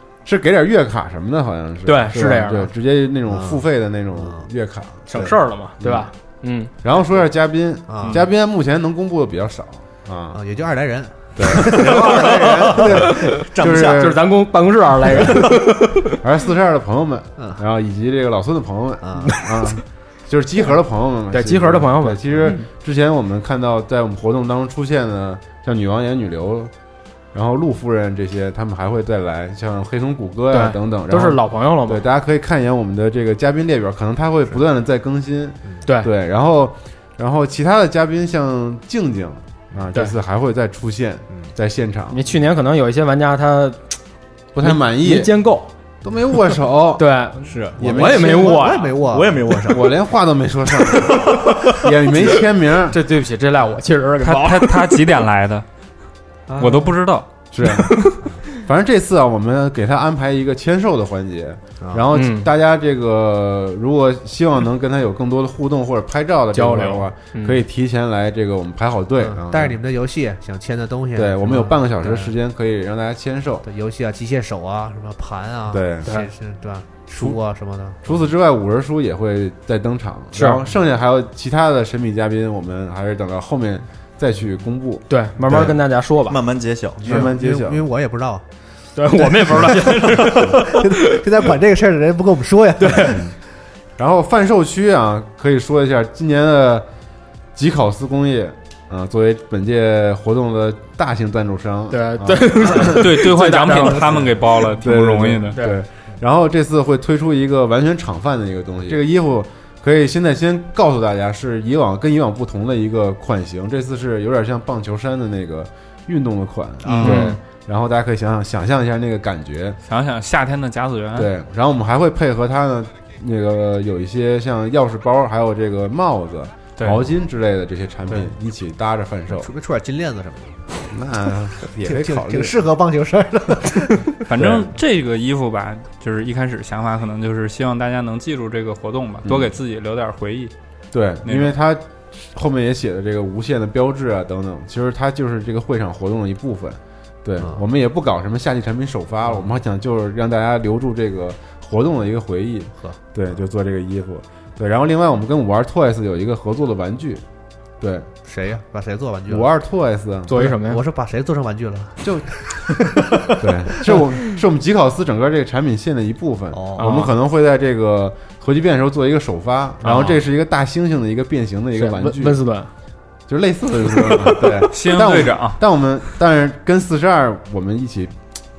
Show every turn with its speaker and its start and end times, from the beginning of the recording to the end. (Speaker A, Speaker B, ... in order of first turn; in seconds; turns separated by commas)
Speaker A: 0.2-6.1, Speaker B: 1.8-2.7, Speaker C: 3.3-3.6, Speaker C: 4.2-4.5, Speaker B: 5.1-6.7, Speaker A: 6.8-10.4, Speaker C: 7.9-8.2, Speaker C: 10.3-12.2, Speaker A: 11.3-14.2, Speaker D: 11.8-14.1, Speaker B: 11.8-16.2, Speaker A: 15.1-15.5, Speaker A: 16.1-26.7, Speaker C: 19.0-19.4, Speaker B: 21.3-22.6, Speaker A: 27.3-42.2, Speaker B: 30.5-32.0, Speaker B: 42.1-44.0, Speaker A: 44.5-45.4, Speaker B: 44.6-45.7, Speaker A: 46.0-47.0, Speaker B: 47.0-49.0, Speaker D: 47.4-47.8, Speaker A: 47.8-48.4, Speaker C: 47.8-49.6, Speaker D: 49.0-49.9, Speaker A: 49.7-53.0, Speaker D: 50.8-52.2, Speaker B: 52.9-55.0, Speaker E: 54.2-55.6, Speaker E: 56.5-57.3, Speaker B: 56.5-56.8, Speaker A: 57.5-69.8, Speaker B: 57.6-58.3, Speaker B: 62.1-62.5, Speaker B: 66.5-67.6, Speaker C: 69.2-72.3, Speaker A: 71.2-73.7, Speaker C: 73.6-78.1, Speaker A: 75.7-76.1, Speaker B: 76.0-76.3, Speaker A: 78.0-85.8, Speaker B: 80.3-80.6, Speaker B: 85.1-86.4, Speaker D: 86.2-87.1, Speaker C: 87.0-88.4, Speaker A: 87.0-87.8, Speaker B: 89.0-91.2, Speaker C: 89.1-93.3, Speaker B: 92.8-93.3, Speaker A: 94.0-96.9, Speaker A: 97.5-103.2, Speaker B: 101.9-104.2, Speaker E: 102.8-105.6, Speaker A: 104.2-119.8, Speaker B: 105.5-105.8, Speaker C: 116.8-117.4, Speaker E: 116.9-117.3, Speaker B: 117.0-117.4, Speaker E: 119.9-121.3, Speaker A: 121.1-129.5, Speaker E: 126.8-127.0, Speaker C: 129.3-130.9, Speaker A: 130.9-132.6, Speaker C: 131.7-134.1, Speaker E: 134.2-140.5, Speaker A: 134.3-134.7, Speaker A: 139.2-139.5, Speaker A: 140.9-157.2, Speaker E: 141.2-141.5, Speaker C: 147.4-147.6, Speaker A: 157.8-158.1, Speaker C: 158.2-159.5, Speaker A: 159.3-160.5, Speaker B: 160.3-160.8, Speaker C: 160.4-163.4, Speaker A: 162.0-162.3, Speaker A: 163.3-172.4, Speaker C: 166.5-167.1, Speaker B: 166.8-167.1, Speaker B: 169.8-170.2, Speaker B: 171.8-172.7, Speaker A: 173.3-178.2, Speaker E: 174.3-175.6